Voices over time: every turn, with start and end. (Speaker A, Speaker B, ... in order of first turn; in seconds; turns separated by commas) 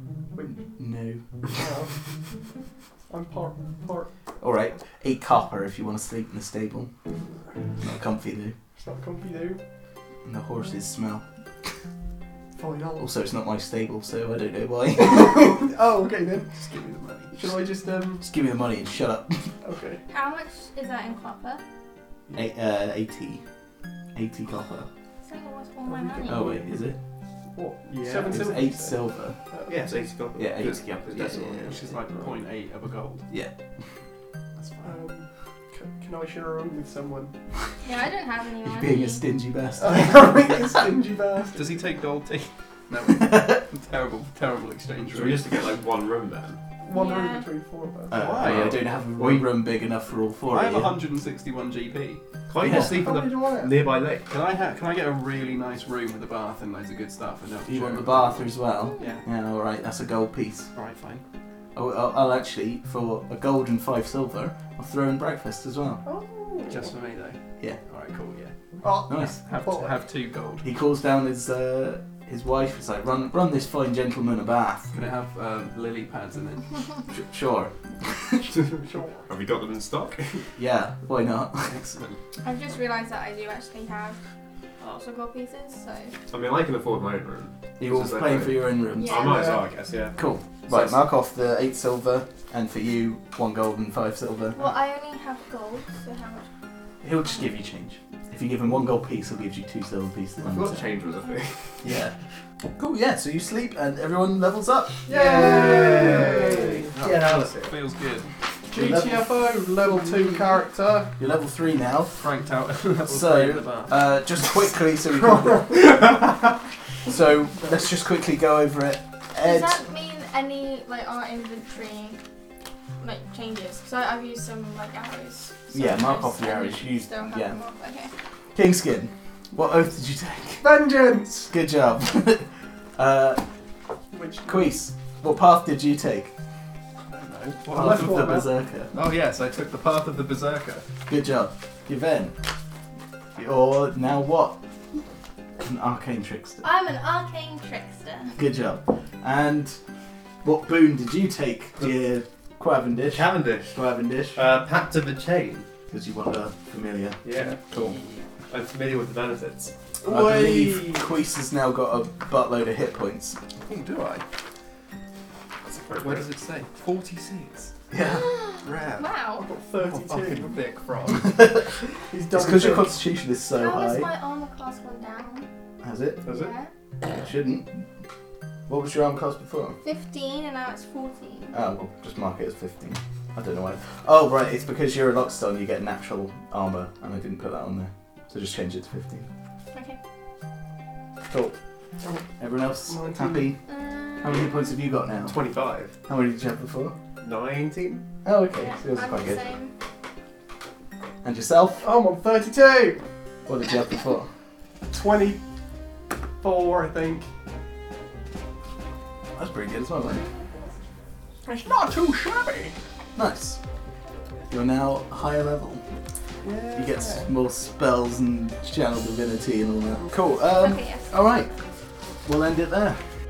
Speaker A: 0.4-1.2, Speaker B: 1.5-1.9, Speaker B: 3.1-4.1, Speaker A: 4.4-6.9, Speaker A: 7.8-8.5, Speaker B: 8.8-9.6, Speaker A: 10.2-11.2, Speaker B: 12.5-13.1, Speaker A: 13.0-15.6, Speaker B: 14.9-18.2, Speaker C: 16.6-17.4, Speaker A: 18.2-19.5, Speaker B: 19.6-20.0, Speaker D: 20.1-21.6, Speaker A: 22.3-23.4, Speaker A: 24.1-24.9, Speaker D: 25.2-26.6, Speaker B: 25.8-26.6, Speaker A: 26.2-27.0, Speaker B: 27.5-29.0, Speaker C: 27.9-28.4, Speaker A: 28.3-29.4, Speaker B: 29.5-30.1, Speaker E: 29.7-31.5, Speaker A: 30.4-31.5, Speaker C: 31.1-33.3, Speaker C: 34.6-35.0, Speaker B: 34.8-37.3, Speaker D: 37.8-39.2, Speaker A: 38.6-40.8, Speaker B: 39.8-41.9, Speaker C: 41.5-45.6, Speaker A: 43.1-43.6, Speaker E: 45.1-46.6, Speaker B: 46.8-48.4, Speaker D: 46.9-47.5, Speaker A: 48.1-51.0, Speaker C: 48.1-48.8, Speaker E: 48.3-49.5, Speaker C: 50.5-52.2, Speaker E: 52.5-54.3, Speaker A: 52.6-53.7, Speaker B: 53.0-53.4, Speaker C: 54.3-59.2, Speaker A: 57.7-60.7, Speaker C: 60.7-61.2, Speaker A: 61.7-66.0, Speaker B: 66.0-66.9, Speaker C: 66.6-68.5, Speaker B: 68.8-70.0, Speaker C: 69.1-70.7, Speaker A: 69.1-69.4, Speaker A: 70.6-74.9, Speaker C: 74.9-76.8, Speaker A: 77.1-78.5, Speaker B: 78.7-79.3, Speaker E: 79.3-80.4, Speaker A: 80.5-81.8, Speaker C: 81.7-82.2, Speaker D: 82.4-84.2, Speaker D: 84.8-86.1, Speaker E: 86.3-90.2, Speaker A: 87.8-89.3, Speaker D: 89.0-89.6, Speaker B: 89.3-89.5, Speaker A: 90.2-94.7, Speaker C: 90.7-91.0, Speaker D: 94.5-96.5, Speaker A: 97.0-100.8, Speaker E: 100.5-101.5, Speaker A: 101.8-102.1, Speaker A: 102.8-106.5, Speaker B: 105.0-106.9, Speaker E: 105.1-107.7, Speaker C: 106.9-109.1, Speaker B: 108.7-111.1, Speaker A: 108.7-109.3, Speaker A: 111.2-112.2, Speaker C: 112.2-114.0, Speaker A: 113.1-119.8, Speaker B: 115.1-115.8, Speaker D: 119.4-122.2, Speaker D: 123.0-128.1, Speaker A: 125.7-127.6, Speaker A: 128.5-133.4, Speaker B: 130.6-131.5, Speaker B: 134.1-134.7, Speaker A: 134.4-136.3, Speaker C: 137.1-138.4, Speaker B: 137.7-138.5, Speaker A: 137.7-138.9, Speaker C: 138.9-140.8, Speaker A: 141.1-142.3, Speaker A: 143.3-144.6, Speaker A: 145.6-146.6, Speaker D: 146.6-148.4, Speaker A: 148.4-149.8, Speaker A: 150.4-154.4, Speaker E: 153.1-153.8, Speaker E: 154.3-155.7, Speaker A: 155.9-158.0, Speaker E: 157.2-157.6, Speaker C: 157.7-158.2, Speaker E: 158.5-159.7, Speaker B: 160.0-161.1, Speaker A: 160.0-163.4, Speaker C: 163.7-164.2, Speaker C: 165.9-167.7, Speaker E: 165.9-166.2, Speaker A: 167.9-168.3, Speaker D: 168.0-169.5, Speaker E: 168.7-169.0, Speaker B: 169.4-170.6, Speaker E: 169.8-171.3, Speaker A: 171.2-171.7, Speaker B: 172.1-173.0, Speaker A: 172.3-174.1, Speaker D: 173.5-175.5, Speaker A: 175.8-176.2, Speaker E: 176.2-176.5, Speaker D: 176.2-176.7, Speaker A: 177.0-177.9, Speaker A: 178.7-179.8, Speaker D: 179.8-181.6, Speaker A: 181.5-189.3, Speaker A: 191.3-191.5, Speaker A: 192.4-193.6, Speaker B: 192.9-193.5, Speaker D: 193.7-194.7, Speaker A: 194.2-195.4, Speaker E: 195.2-195.9, Speaker A: 196.1-196.9, Speaker E: 197.2-198.0, Speaker A: 198.2-199.4, Speaker D: 198.5-199.7, Speaker A: 201.2-201.8, Speaker B: 201.8-203.0, Speaker A: 203.4-204.3, Speaker B: 204.9-205.4, Speaker B: 206.4-207.3, Speaker A: 209.3-210.2, Speaker D: 210.0-210.7, Speaker B: 211.4-212.7, Speaker A: 213.2-213.6, Speaker A: 214.5-215.8, Speaker B: 216.4-217.3, Speaker A: 216.7-221.5, Speaker B: 219.9-220.3, Speaker D: 220.6-221.1, Speaker A: 222.2-223.0